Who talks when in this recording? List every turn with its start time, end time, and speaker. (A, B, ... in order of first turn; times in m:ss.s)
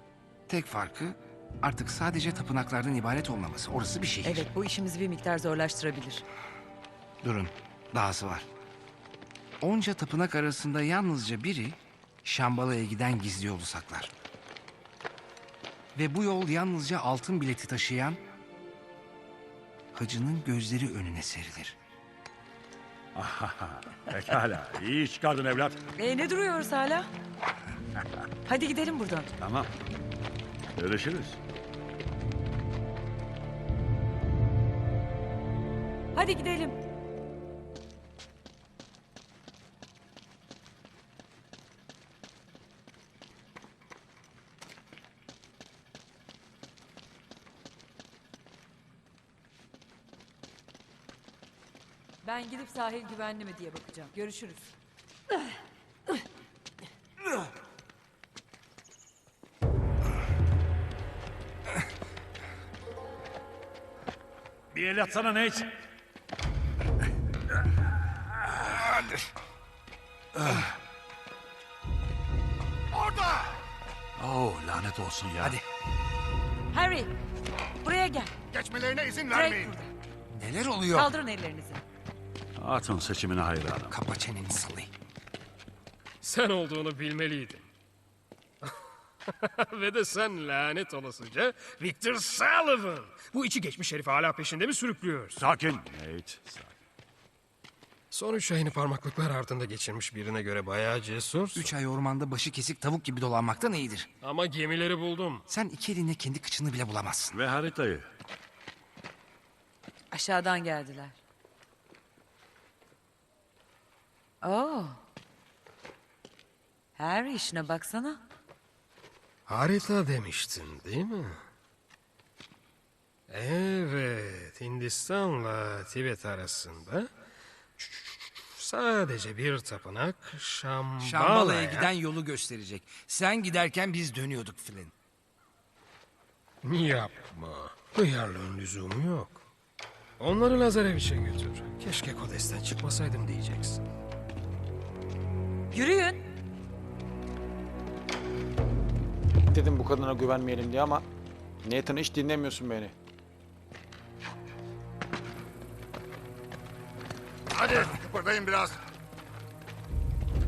0:00.5-0:04.5 A
0:04.2-0:06.2 B
0:07.2-0:08.5 A
0:09.6-0:14.1 A
0:16.0-0:18.2 A
0:19.9-0:21.8 A
0:23.2-0:25.8 C
0:26.0-0:27.1 B
0:28.4-0:29.3 B
0:29.4-0:29.7 C
0:30.8-0:31.4 C
0:36.2-0:36.8 B
0:52.2-0:54.7 B
1:04.7-1:05.7 C
1:08.8-1:09.2 A
1:10.4-1:10.6 C
1:14.2-1:15.6 C
1:16.7-1:17.1 B
1:17.8-1:19.9 B
1:20.3-1:21.1 A
1:20.9-1:21.8 B
1:22.6-1:24.0 C
1:23.9-1:24.9 A
1:26.2-1:27.7 D
1:29.4-1:35.4 D
1:35.4-1:36.7 C
1:38.1-1:41.7 D
1:41.6-1:44.1 A
1:44.2-1:45.4 D
1:45.5-1:47.4 A
1:47.3-1:48.1 C
1:50.1-1:51.2 B
1:54.4-1:55.0 B
1:57.0-1:58.2 B
1:59.5-2:01.4 D
2:03.3-2:07.1 D
2:07.8-2:11.9 D
2:11.0-2:14.9 A
2:16.6-2:19.4 D
2:20.2-2:23.8 D
2:25.7-2:26.3 B
2:29.5-2:31.1 E
2:31.6-2:33.0 E
2:37.7-2:38.7 A